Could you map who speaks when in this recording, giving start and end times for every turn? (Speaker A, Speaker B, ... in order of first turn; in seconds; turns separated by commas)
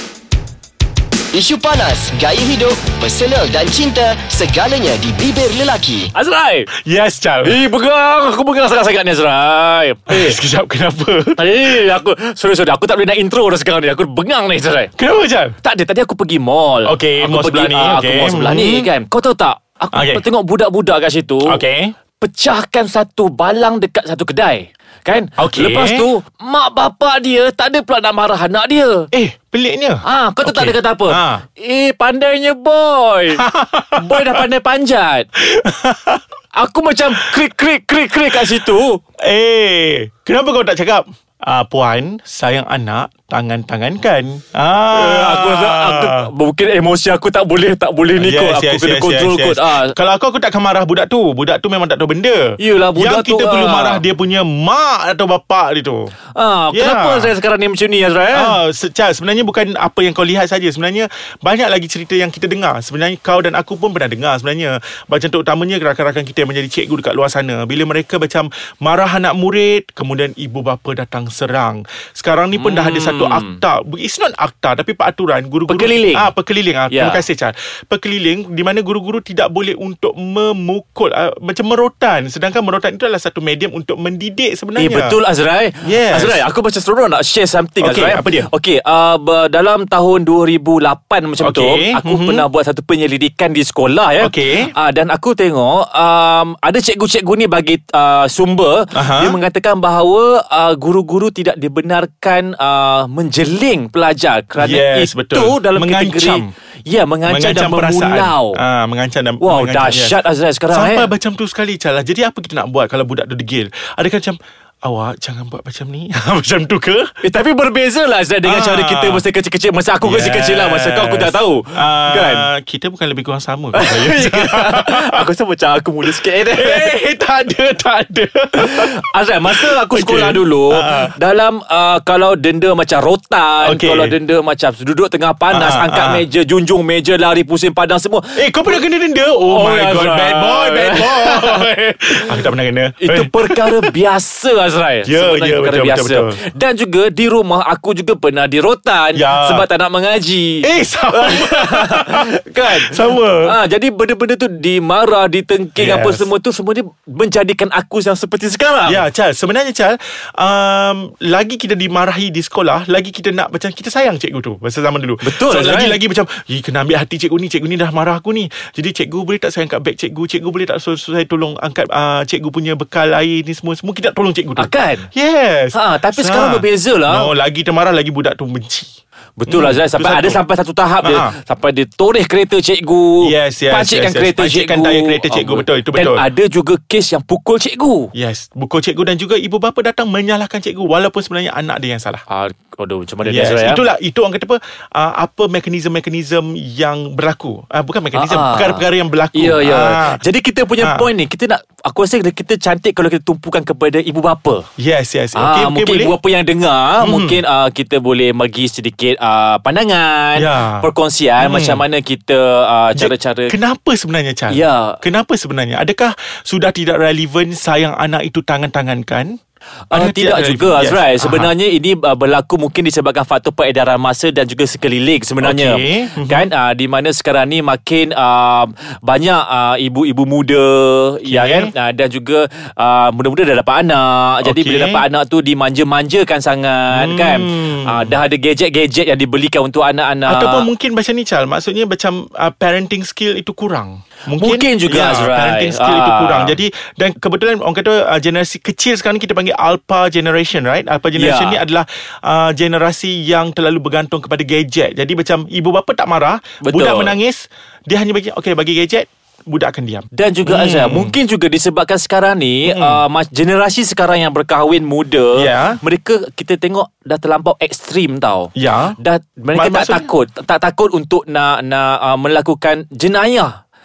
Speaker A: 1.3-6.1, Speaker B: 6.1-6.7, Speaker C: 6.7-7.6, Speaker B: 7.4-10.4, Speaker C: 10.1-11.9, Speaker B: 11.3-14.9, Speaker C: 15.0-15.6, Speaker B: 15.6-21.6, Speaker C: 16.8-18.9, Speaker C: 19.9-20.2, Speaker C: 21.4-21.9, Speaker B: 22.2-29.1, Speaker C: 25.4-26.1, Speaker C: 29.1-31.4, Speaker B: 30.0-33.4, Speaker C: 33.3-34.5, Speaker B: 33.9-35.3, Speaker C: 35.4-36.2, Speaker B: 36.5-39.0, Speaker C: 38.3-38.7, Speaker C: 39.2-46.3, Speaker B: 44.9-49.9, Speaker C: 48.2-56.1, Speaker B: 52.6-54.0, Speaker B: 56.4-58.5, Speaker C: 56.7-57.3, Speaker C: 58.3-85.2, Speaker B: 72.5-73.6, Speaker B: 75.7-76.3, Speaker B: 76.9-77.2, Speaker B: 84.8-108.6, Speaker C: 85.8-86.4, Speaker C: 87.8-88.5, Speaker C: 91.4-92.5, Speaker C: 94.2-94.7, Speaker C: 98.9-99.4, Speaker C: 104.6-106.5, Speaker C: 107.2-117.1, Speaker B: 109.4-111.1, Speaker B: 117.2-122.5, Speaker C: 118.4-119.2, Speaker C: 120.0-125.2, Speaker B: 123.7-127.0, Speaker C: 126.0-131.1, Speaker B: 128.6-138.8, Speaker C: 133.6-134.2, Speaker C: 135.5-136.2, Speaker C: 138.3-143.9, Speaker B: 139.5-141.7, Speaker B: 143.0-159.0, Speaker C: 145.1-146.4, Speaker C: 149.1-149.7, Speaker C: 150.6-153.5, Speaker C: 155.8-156.3, Speaker C: 158.8-178.9, Speaker B: 165.2-166.0, Speaker B: 174.6-175.1, Speaker B: 175.7-177.3, Speaker B: 179.4-188.1, Speaker C: 179.5-180.4, Speaker C: 181.0-181.3, Speaker C: 183.2-186.2, Speaker C: 188.1-192.2, Speaker B: 192.3-193.8, Speaker C: 193.2-200.2, Speaker B: 198.1-204.7, Speaker C: 200.8-201.1, Speaker C: 204.8-206.2, Speaker B: 205.3-213.6, Speaker C: 207.0-207.4, Speaker C: 210.3-211.8, Speaker C: 212.9-219.3, Speaker B: 214.5-215.0, Speaker B: 219.9-240.7, Speaker C: 219.9-221.5, Speaker C: 225.4-226.5, Speaker C: 231.2-231.7, Speaker C: 234.4-235.0, Speaker C: 236.9-238.2, Speaker C: 240.3-261.1, Speaker B: 244.3-246.6, Speaker B: 251.1-251.6, Speaker B: 256.6-257.2, Speaker B: 260.1-273.5, Speaker C: 262.6-263.0, Speaker C: 265.3-265.8, Speaker C: 268.6-269.0, Speaker C: 269.5-270.1